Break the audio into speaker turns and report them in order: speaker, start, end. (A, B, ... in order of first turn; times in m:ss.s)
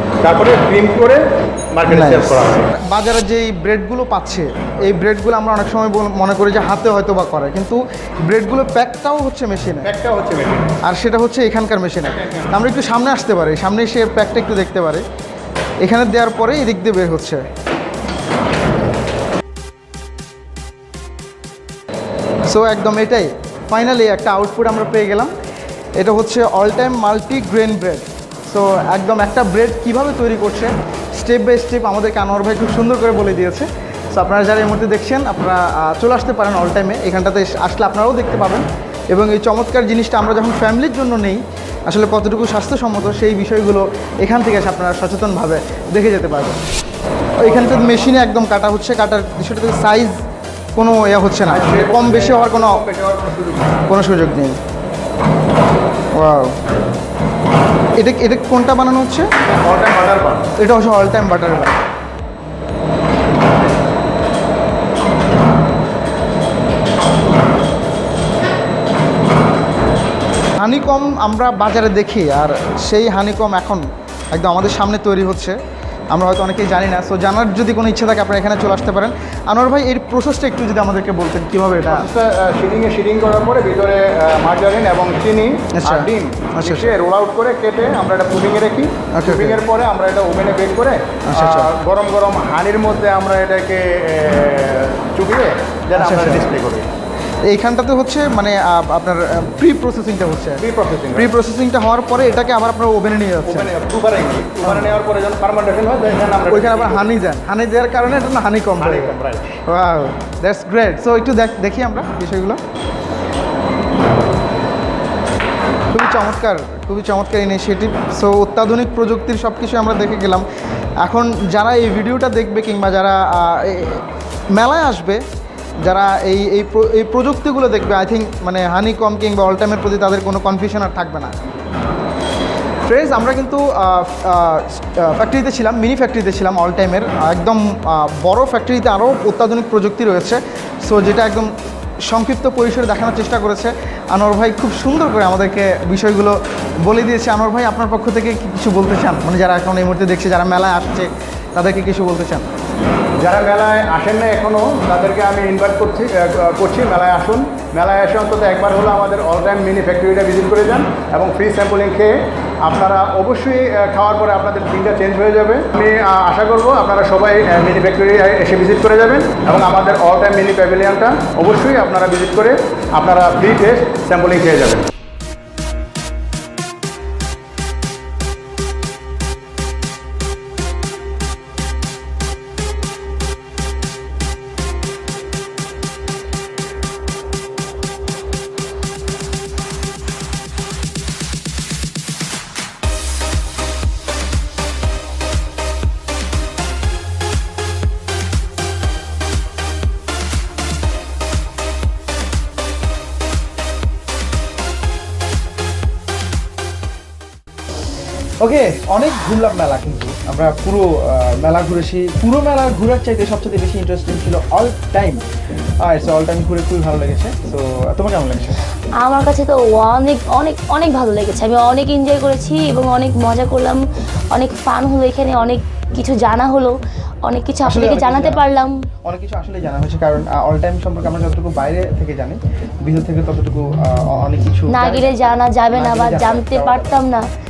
0:00.2-0:01.2 A
0:01.7-0:02.7 A
0:01.9-0:09.9 B
0:09.8-0:10.7 A
0:10.8-0:15.0 B
0:15.8-0:17.4 B
0:22.5-0:25.3 B
0:26.0-0:46.6 B
0:47.4-0:50.2 B
0:47.4-0:48.1 A
0:50.8-0:52.8 B
0:51.4-0:53.8 A
0:53.9-0:54.6 B
0:56.2-0:56.6 B
0:58.0-0:59.3 B
0:59.6-1:00.5 A
1:00.6-1:01.8 B
1:10.6-1:15.6 B
1:16.1-1:22.1 B
1:21.8-1:36.9 A
1:25.8-1:27.0 B
1:29.2-1:29.6 B
1:31.3-1:31.7 B
1:36.0-1:36.4 B
1:37.5-1:43.7 B
1:40.6-1:41.4 A
1:43.5-1:47.1 A
1:44.6-1:45.0 B
1:46.5-1:49.2 B
1:48.8-1:49.5 A
1:49.7-1:52.6 B
1:55.9-2:00.5 B
2:01.0-2:05.2 B
2:05.8-2:11.3 B
2:12.9-2:21.5 B
2:22.0-2:32.5 B
2:33.2-2:54.9 A
3:28.4-3:35.2 B
3:35.8-3:38.6 B
3:39.0-3:43.8 C
3:44.3-3:48.7 C
3:47.6-3:48.4 B
3:49.0-3:55.2 B
3:54.7-3:57.2 C
3:55.7-3:57.0 B